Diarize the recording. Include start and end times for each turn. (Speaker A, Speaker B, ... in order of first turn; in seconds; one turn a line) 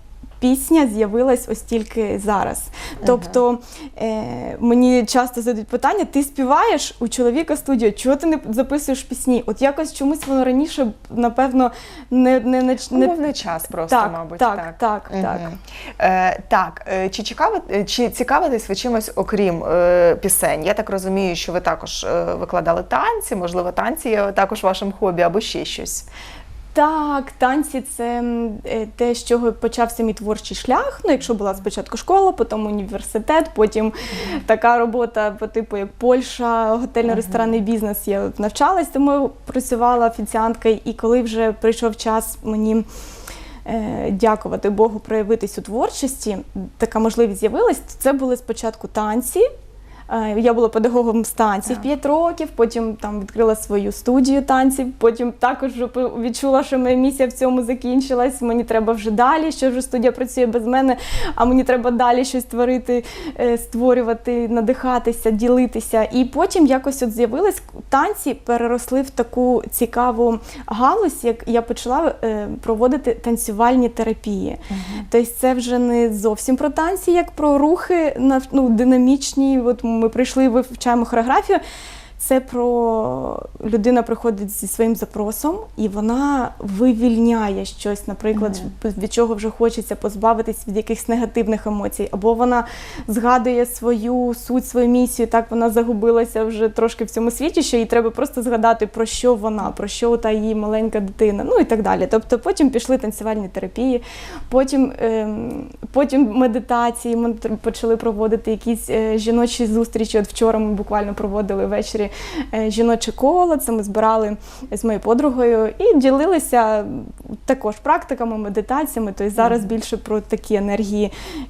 Speaker A: 0.4-13.2
Speaker B: 3.0-3.4
Speaker B: 12.9-26.1
Speaker A: 13.9-15.5
Speaker A: 26.7-42.9
Speaker B: 37.1-37.6
Speaker A: 43.7-49.5
Speaker A: 50.1-81.6
Speaker B: 74.7-75.0
Speaker A: 82.2-121.1
Speaker B: 119.4-119.7